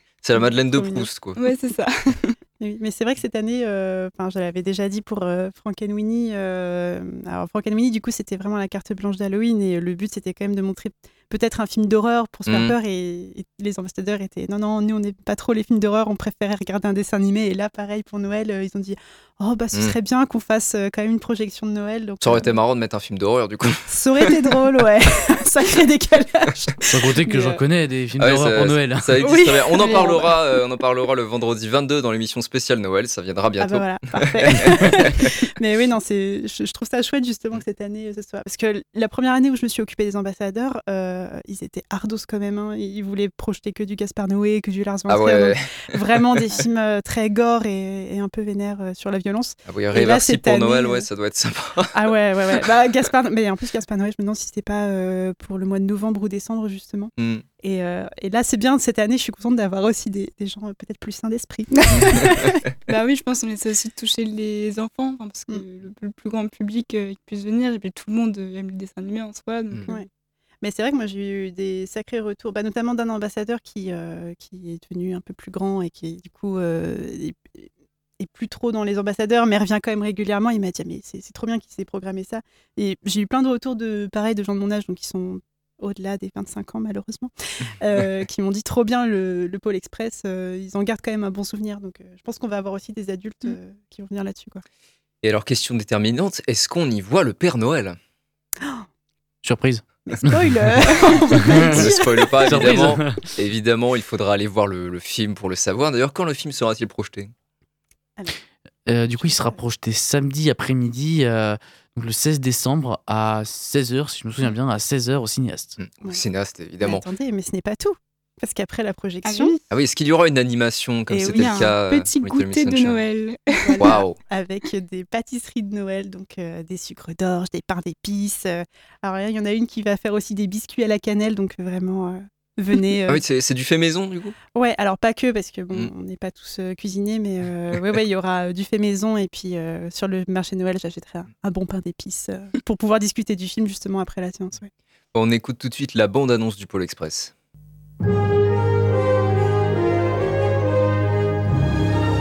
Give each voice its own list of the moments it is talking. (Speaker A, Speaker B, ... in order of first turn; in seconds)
Speaker A: 0.2-1.4, 12.5-12.7, 22.2-23.8, 28.2-35.0, 45.1-45.6, 49.7-51.9, 57.2-57.4, 95.2-98.0, 101.7-107.3, 115.8-117.0, 119.7-123.0, 123.8-124.2, 133.1-134.3, 145.1-147.3
Speaker B: 0.4-1.1, 2.6-22.5, 23.8-27.6, 29.2-30.4, 33.6-51.0, 51.9-62.6, 70.6-77.7, 78.2-94.6, 100.1-102.9, 109.2-109.6, 116.8-119.5, 121.1-122.2, 123.7-133.2, 134.5-144.7
Speaker C: 1.4-2.4, 62.9-70.0, 119.2-119.6, 121.3-121.7, 122.3-123.8
Speaker D: 26.9-29.2, 99.4-101.9, 102.5-103.2, 108.9-115.8